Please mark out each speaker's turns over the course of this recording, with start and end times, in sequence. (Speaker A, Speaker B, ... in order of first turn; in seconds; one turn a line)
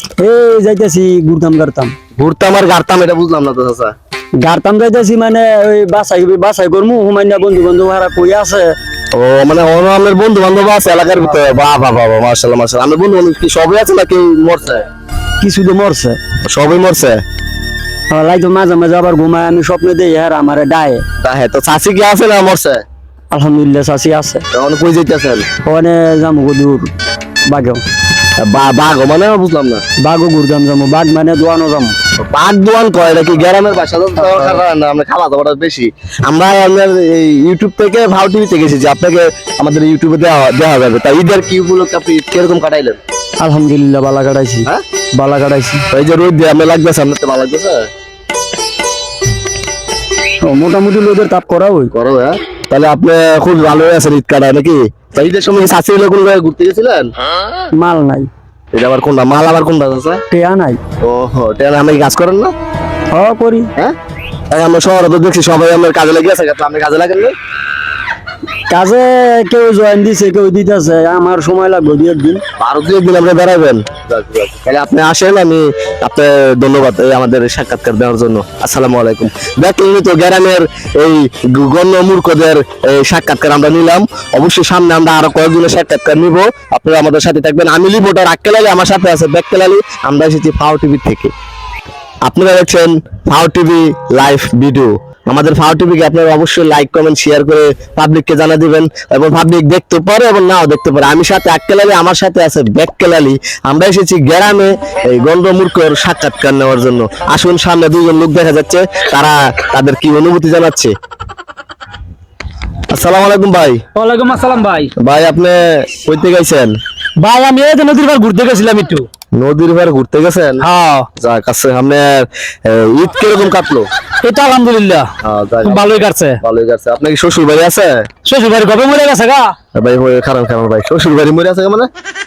Speaker A: 0.2-1.9
Speaker B: 2.2-3.9
Speaker A: 4.4-8.7
Speaker B: 9.1-14.8
Speaker A: 15.4-16.2
Speaker B: 16.4-17.2
Speaker A: 18.1-21.0
Speaker B: 21.2-22.8
Speaker A: 23.3-24.4
Speaker B: 24.5-25.4
Speaker A: 25.6-26.9
Speaker A: 27.4-27.8
Speaker B: 28.4-29.8
Speaker A: 30.0-31.9
Speaker B: 32.3-43.0
Speaker A: 43.4-45.8
Speaker B: 45.9-47.9
Speaker A: 50.4-51.9
Speaker B: 51.9-57.1
Speaker A: 57.7-58.3
Speaker B: 58.7-60.2
Speaker A: 60.3-60.8
Speaker B: 61.0-62.5
Speaker A: 63.1-63.7
Speaker B: 64.5-67.3
Speaker A: 68.7-72.4
Speaker B: 72.6-91.3
Speaker B: 92.2-110.9
Speaker B: 112.9-113.8
Speaker C: 113.9-114.9
Speaker B: 115.0-116.7
Speaker C: 117.2-119.0
Speaker B: 119.3-120.6
Speaker C: 120.6-121.1
Speaker B: 121.2-123.9
Speaker C: 124.2-125.1
Speaker B: 125.2-125.9
Speaker C: 125.6-126.4
Speaker B: 126.4-128.1
Speaker C: 128.2-129.5
Speaker B: 129.8-131.9